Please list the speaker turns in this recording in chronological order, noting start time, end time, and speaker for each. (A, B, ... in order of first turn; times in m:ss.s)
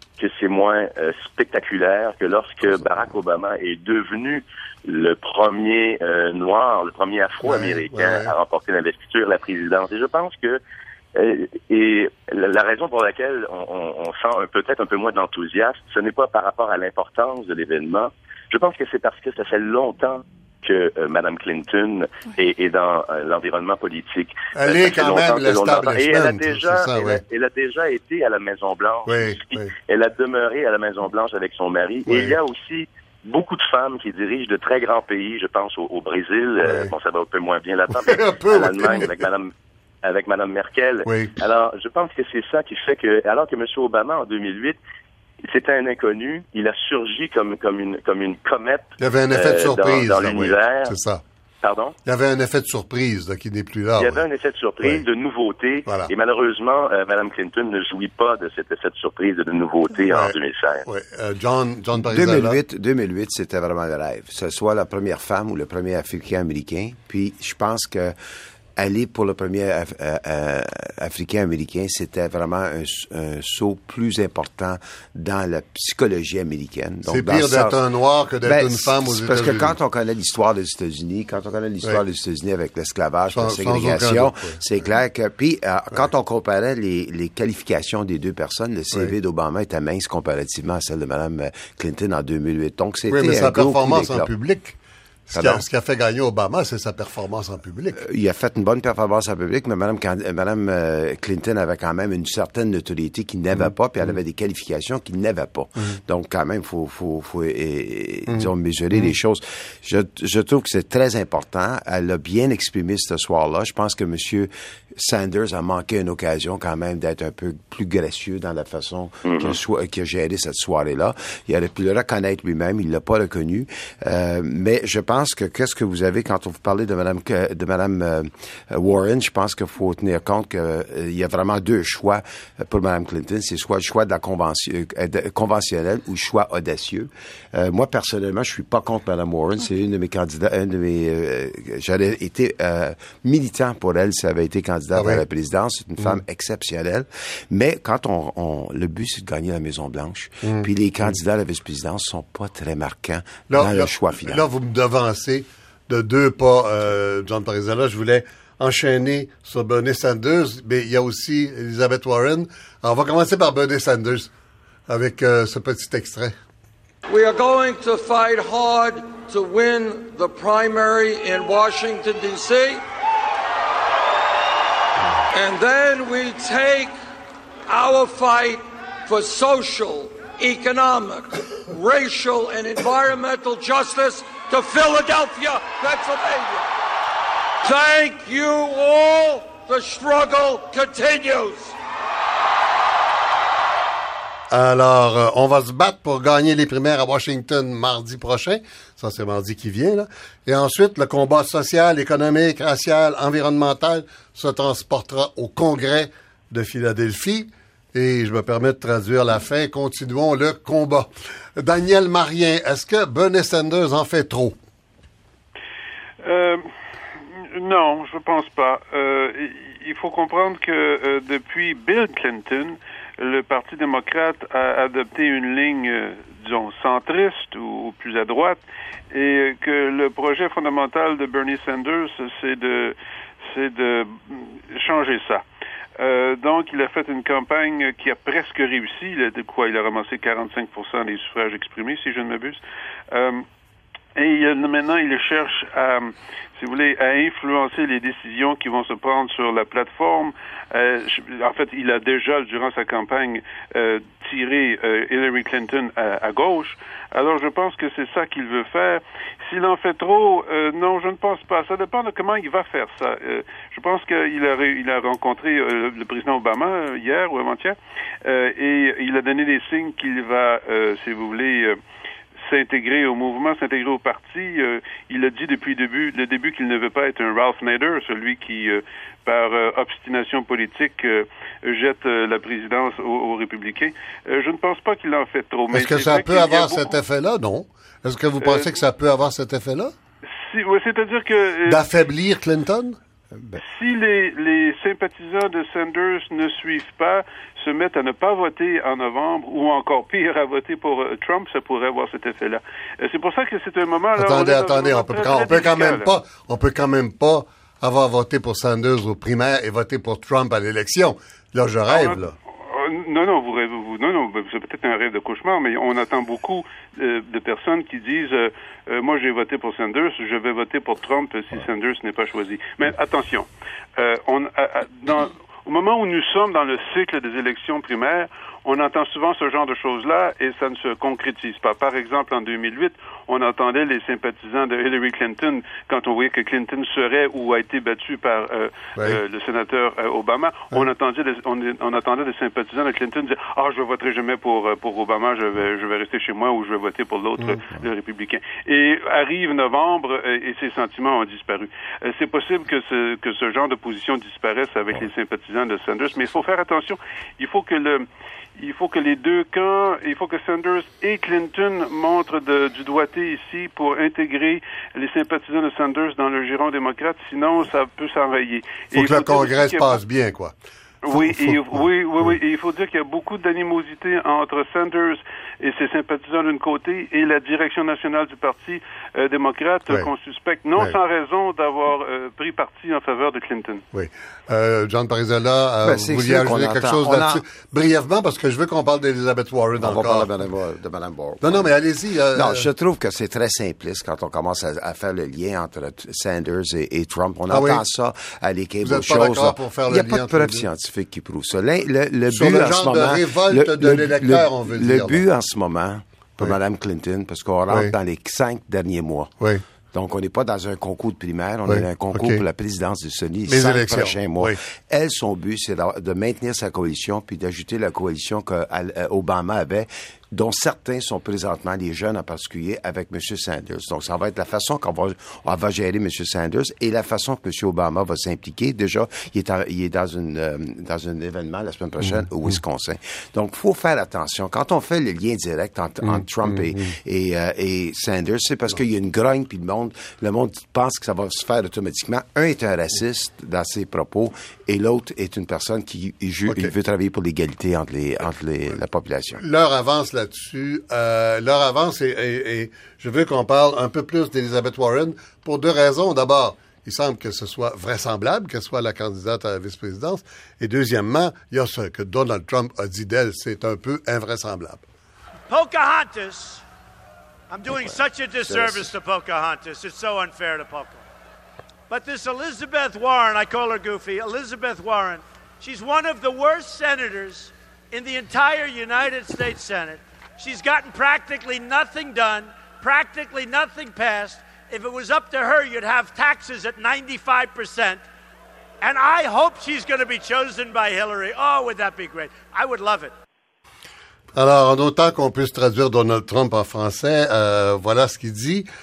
0:00.2-0:10.6 A
0:07.4-0:08.3 B
0:11.2-0:39.5 A
0:24.5-0:27.2 B
0:29.1-0:29.7 B
0:32.1-0:32.4 B
0:36.6-0:36.9 B
0:37.9-0:39.2 B
0:40.0-0:44.8 A
0:41.1-0:41.3 B
0:45.5-0:51.0 A
0:49.0-0:51.2 B
0:51.6-0:52.0 A
0:52.0-0:54.2 B
0:54.0-1:00.8 A
1:00.1-1:00.4 B
1:00.9-1:02.6 B
1:02.0-1:08.2 C
1:08.8-1:17.8 C
1:17.1-1:19.7 B
1:18.4-1:34.3 C
1:23.3-1:24.6 B
1:33.1-1:34.8 B
1:35.3-1:38.0 B
1:35.3-1:35.6 C
1:37.9-2:34.4 C
1:43.5-1:44.2 B
1:48.3-1:49.1 B
1:59.2-1:59.6 A
2:25.0-2:25.2 B
2:30.4-2:31.2 B
2:33.5-2:44.3 B
2:44.9-2:46.3 B
2:47.1-2:52.8 D
2:55.3-2:56.9 D
2:57.7-3:06.7 D
3:07.6-3:11.8 D
3:14.5-3:34.6 B
3:36.2-3:36.6 E
3:37.5-3:55.4 E
3:56.0-4:03.4 E
4:04.2-4:31.8 E
4:32.4-4:46.9 E
4:45.7-4:49.9 B
4:48.4-4:48.8 E
4:50.4-4:51.8 E
4:51.7-4:53.0 B
4:53.6-5:06.1 E
5:04.2-5:12.3 B
5:11.9-5:58.1 E
5:58.6-6:10.0 E
6:08.9-6:10.6 B
6:11.0-6:23.8 E
6:11.1-6:12.3 B
6:23.9-6:30.3 B
6:25.8-6:27.4 C
6:29.8-6:31.7 C
6:31.4-6:32.7 B
6:32.3-6:49.3 C
6:37.5-6:37.8 B
6:38.8-6:40.6 B
6:42.3-6:45.2 B
6:49.9-7:29.4 C
6:51.7-6:52.4 B
6:53.5-6:54.6 B
7:12.0-7:12.6 B
7:16.0-7:16.9 B
7:29.4-7:44.8 B
7:45.5-7:46.6 F
7:47.5-7:51.0 F
7:48.5-7:48.8 C
7:51.9-8:08.0 F
8:08.8-8:13.1 F
8:14.4-8:18.7 B